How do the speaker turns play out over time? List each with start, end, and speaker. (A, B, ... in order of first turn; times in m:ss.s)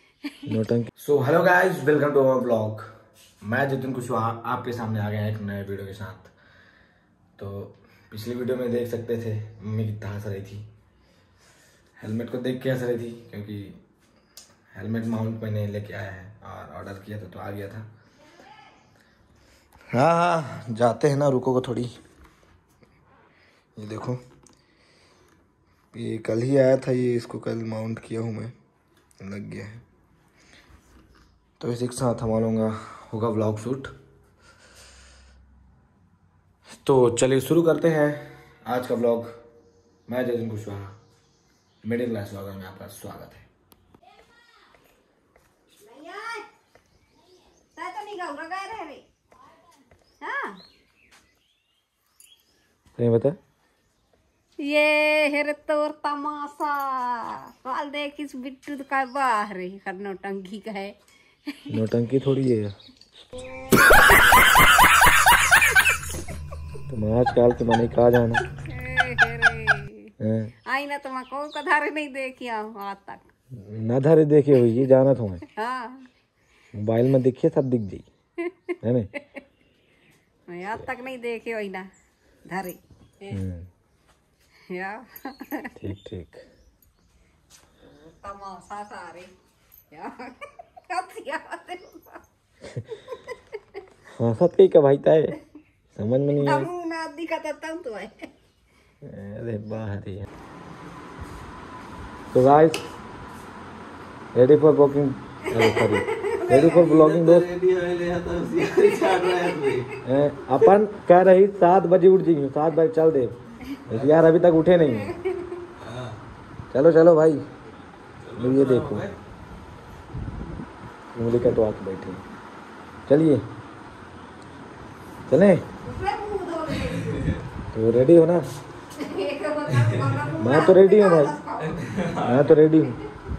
0:00.3-0:00.6 A
0:00.5-0:02.8 B
0:03.4-0:06.3 B
0:07.4-0:10.7 B
0:12.0-0:13.8 B
0:14.7-0:17.9 B
0:19.9-0:21.9 B
0:23.8-0:24.2 B
0:25.9-0:28.6 B
0:29.2-0:29.8 B
0:31.6-0:33.9 B
0:36.7-0:39.3 B
0:40.1-0:40.9 B
0:41.8-0:43.5 B
0:45.8-0:46.5 A
0:47.8-0:49.0 A
0:50.2-0:50.6 A
0:53.0-0:53.4 B
0:54.6-1:01.8 A
1:01.7-1:02.7 B
1:03.6-1:04.0 A
1:06.9-1:08.4 B
1:08.5-1:10.1 A
1:10.2-1:10.5 B
1:10.7-1:13.2 A
1:13.6-1:15.4 B
1:15.5-1:16.1 A
1:16.7-1:18.0 B
1:18.4-1:19.4 A
1:18.8-1:19.1 B
1:20.5-1:21.9 A
1:22.5-1:23.4 A
1:23.3-1:23.7 B
1:24.7-1:25.7 A
1:25.8-1:26.4 B
1:27.8-1:29.3 A
1:29.9-1:32.2 A
1:33.1-1:33.4 A
1:34.2-1:35.4 B
1:36.0-1:36.7 B
1:36.4-1:38.3 A
1:39.0-1:40.3 B
1:42.3-1:42.8 B
1:44.4-1:47.5 B
1:45.5-1:47.0 A
1:49.1-1:49.7 A
1:50.0-1:53.4 B
1:53.9-1:55.2 B
1:55.1-1:55.7 A
1:56.7-1:57.4 B
1:58.4-1:59.1 B
2:01.1-2:02.2 B
2:03.1-2:03.4 B
2:05.3-2:05.7 B
2:05.8-2:07.4 A
2:07.7-2:08.4 B
2:09.0-2:11.8 A
2:10.4-2:11.4 B
2:12.2-2:13.0 B